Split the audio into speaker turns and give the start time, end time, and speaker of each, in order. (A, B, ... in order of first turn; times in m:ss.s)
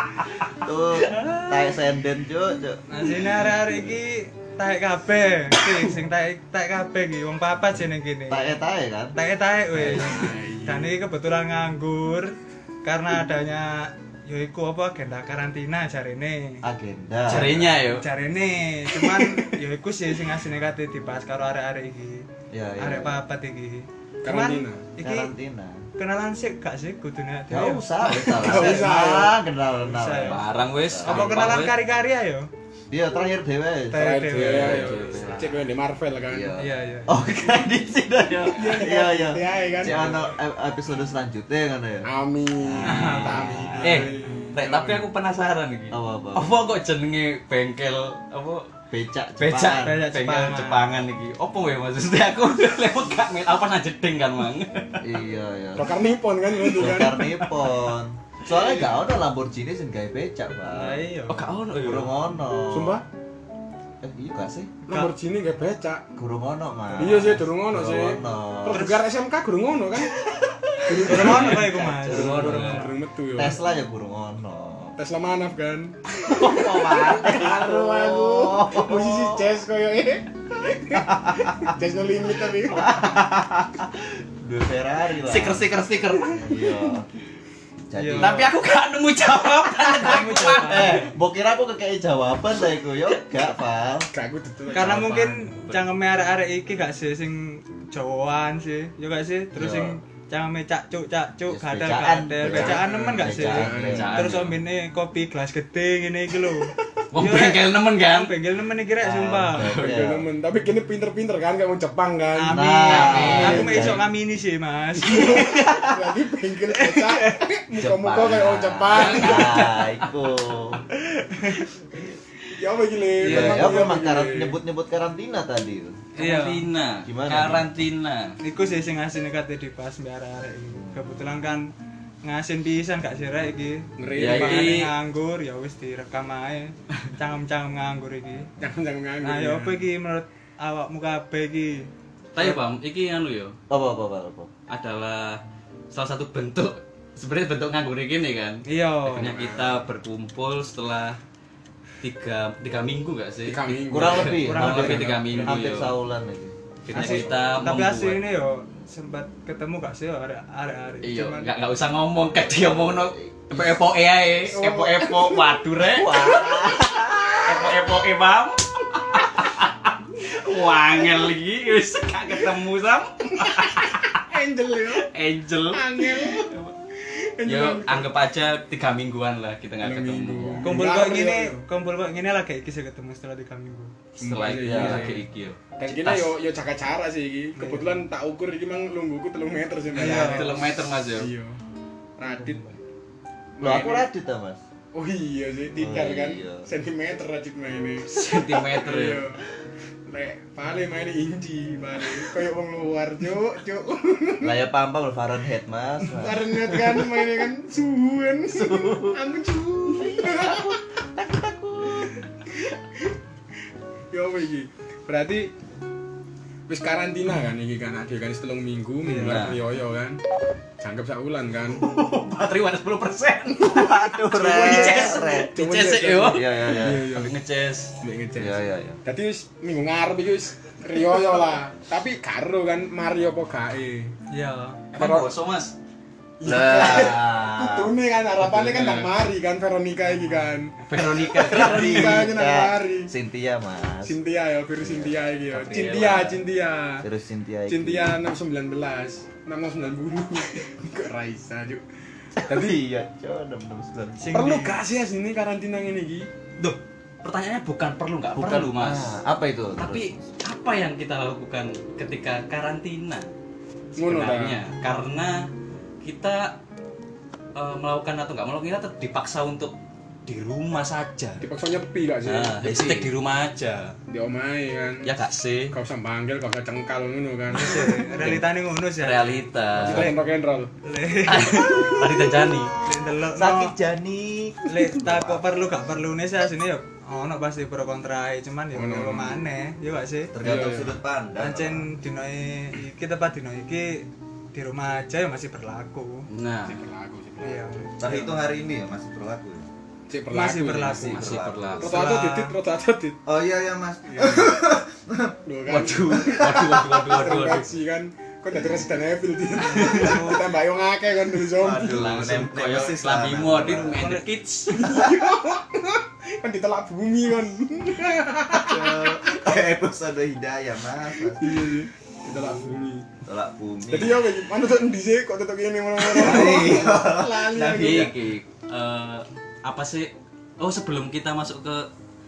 0:00.6-0:03.2 A
0:01.0-0:01.5 B
0:02.9-0:08.5 C
0:08.3-0:09.2 A
0:09.1-0:16.6 C
0:09.7-0:10.3 A
0:09.9-0:10.9 D
0:16.6-0:17.8 A
0:17.3-0:18.0 B
0:17.3-0:22.3 C
0:22.5-0:23.2 A
0:22.8-0:25.3 C
0:24.2-0:24.8 D
0:25.0-0:25.8 A
0:26.0-0:29.0 C
0:27.5-0:31.7 A
0:28.1-0:29.4 D
0:29.8-0:30.4 C
0:30.2-0:31.8 B
0:31.0-0:32.5 C
0:32.9-0:35.4 A
0:33.9-0:35.0 C
0:33.9-0:36.5 D
0:34.5-0:35.6 B
0:36.3-0:44.1 A
0:36.6-0:37.3 C
0:38.5-0:40.2 D
0:42.0-0:45.1 D
0:42.8-0:43.8 C
0:43.8-0:48.7 B
0:45.9-0:46.6 A
0:48.9-0:50.0 A
0:49.4-0:55.0 B
0:49.8-0:51.0 C
0:55.0-0:55.9 A
0:55.7-0:57.3 D
0:56.8-1:01.0 A
1:00.6-1:01.4 C
1:01.3-1:02.1 B
1:01.8-1:03.0 A
1:02.7-1:03.0 D
1:04.0-1:04.8 A
1:04.8-1:06.0 D
1:06.2-1:08.9 A
1:06.9-1:10.2 D
1:10.8-1:13.6 D
1:10.9-1:12.9 B
1:11.0-1:12.9 C
1:11.1-1:15.0 A
1:15.0-1:23.2 D
1:16.2-1:19.6 A
1:16.2-1:17.3 B
1:20.9-1:21.7 A
1:22.7-1:27.1 A
1:25.2-1:26.4 B
1:27.9-1:28.5 A
1:27.9-1:28.5 C
1:28.2-1:31.1 B
1:29.9-1:31.1 C
1:29.9-1:34.1 A
1:34.1-1:35.5 D
1:34.7-1:49.9 C
1:39.5-1:40.0 A
1:41.5-1:44.3 A
1:42.4-1:44.1 D
1:43.8-1:44.6 B
1:47.1-1:48.3 B
1:49.0-1:50.2 A
1:49.7-1:53.9 D
1:52.3-1:55.8 C
1:52.5-1:54.0 A
1:52.9-1:54.0 B
1:55.0-1:59.7 D
1:56.7-1:57.4 C
1:57.8-2:00.8 A
1:58.9-1:59.9 B
2:02.5-2:04.6 D
2:03.2-2:03.9 C
2:03.2-2:06.0 A
2:06.1-2:06.7 C
2:06.2-2:08.4 B
2:07.0-2:07.7 A
2:08.4-2:11.7 C
2:10.8-2:11.0 A
2:12.2-2:18.5 C
2:14.0-2:14.8 D
2:14.2-2:14.9 B
2:18.6-2:19.8 D
2:19.2-2:21.9 C
2:22.3-2:23.6 B
2:23.7-2:24.5 A
2:24.7-2:25.4 B
2:25.9-2:31.2 B
2:28.6-2:29.3 C
2:29.2-2:29.6 A
2:29.2-2:29.6 D
2:32.0-2:35.9 B
2:33.4-2:35.4 D
2:33.9-2:37.3 A
2:34.4-2:35.6 C
2:36.8-2:38.2 B
2:36.9-2:41.6 C
2:41.0-2:54.1 B
2:42.2-2:43.8 A
2:44.4-2:45.5 D
2:45.8-2:47.8 A
2:53.5-2:55.1 D
2:54.9-2:56.7 B
2:55.7-2:56.5 D
2:57.4-2:58.1 D
2:57.4-3:00.7 B
2:59.8-3:01.6 D
3:00.6-3:04.0 C
3:04.2-3:05.2 D
3:04.2-3:06.3 B
3:04.6-3:05.2 A
3:05.8-3:11.6 D
3:07.5-3:08.0 C
3:09.9-3:10.6 C
3:10.0-3:11.3 B
3:12.2-3:12.6 D
3:13.6-3:14.1 D
3:13.6-3:14.6 A
3:14.9-3:19.4 D
3:15.8-3:16.7 A
3:18.1-3:19.3 B
3:20.1-3:24.6 D
3:24.4-3:27.0 A
3:26.1-3:30.8 D
3:28.5-3:29.2 A
3:30.0-3:32.1 A
3:34.1-3:35.5 D
3:36.7-3:40.2 D
3:39.0-3:39.6 B
3:40.8-3:41.8 D
3:41.7-3:48.0 B
3:43.6-3:45.5 A
3:43.8-3:47.3 D
3:46.3-3:47.1 A
3:48.0-3:54.1 D
3:48.4-3:49.0 A
3:54.3-3:54.8 C
3:54.9-3:55.3 D
3:54.9-3:55.7 B
3:56.4-4:00.8 D
3:56.4-3:57.9 A
3:58.4-3:59.1 B
4:00.9-4:02.3 B
4:01.0-4:04.1 A
4:01.3-4:03.1 D
4:04.0-4:07.0 D
4:04.8-4:05.2 A
4:05.5-4:06.4 B
4:07.0-4:08.2 A
4:07.7-4:11.8 D
4:12.4-4:14.4 A
4:12.4-4:12.8 D
4:14.2-4:14.8 C
4:14.3-4:16.3 D
4:16.6-4:19.1 B
4:18.3-4:20.2 A
4:19.8-4:23.3 B
4:24.0-4:24.6 D
4:24.0-4:25.5 B
4:26.0-4:26.6 B
4:27.5-4:29.7 B
4:30.2-4:31.4 B
4:31.4-4:32.6 D
4:32.2-4:34.0 B
4:32.6-4:33.1 A
4:34.1-4:35.1 D
4:35.0-4:35.7 B
4:35.7-4:38.0 D
4:37.5-4:38.4 B
4:37.5-4:40.2 C
4:39.0-4:40.1 B
4:39.8-4:40.7 D
4:40.8-4:41.9 C
4:41.2-4:42.7 B
4:41.4-4:42.4 D
4:42.8-4:43.7 C
4:43.3-4:45.4 A
4:44.6-4:50.3 C
4:48.7-4:49.4 D
4:50.3-4:51.9 A
4:50.4-4:50.9 D
4:51.4-4:56.3 C
4:56.3-4:56.8 B
4:56.6-4:57.7 D
4:57.4-4:58.4 C
4:58.0-4:59.7 A
5:00.1-5:01.1 D
5:00.3-5:02.5 C
5:00.9-5:01.9 A
5:01.0-5:01.9 B
5:01.8-5:03.2 D
5:03.2-5:05.4 A
5:04.1-5:04.6 D
5:05.4-5:12.1 D
5:05.7-5:07.7 B
5:06.4-5:06.7 A
5:09.6-5:10.5 C
5:11.5-5:14.0 A
5:11.8-5:14.8 B
5:13.9-5:14.3 C
5:14.7-5:19.2 D
5:14.8-5:15.2 A
5:18.5-5:21.6 A
5:21.3-5:23.0 D
5:23.2-5:24.3 A
5:23.9-5:28.1 D
5:26.0-5:28.1 A
5:26.2-5:26.7 B
5:27.6-5:31.9 B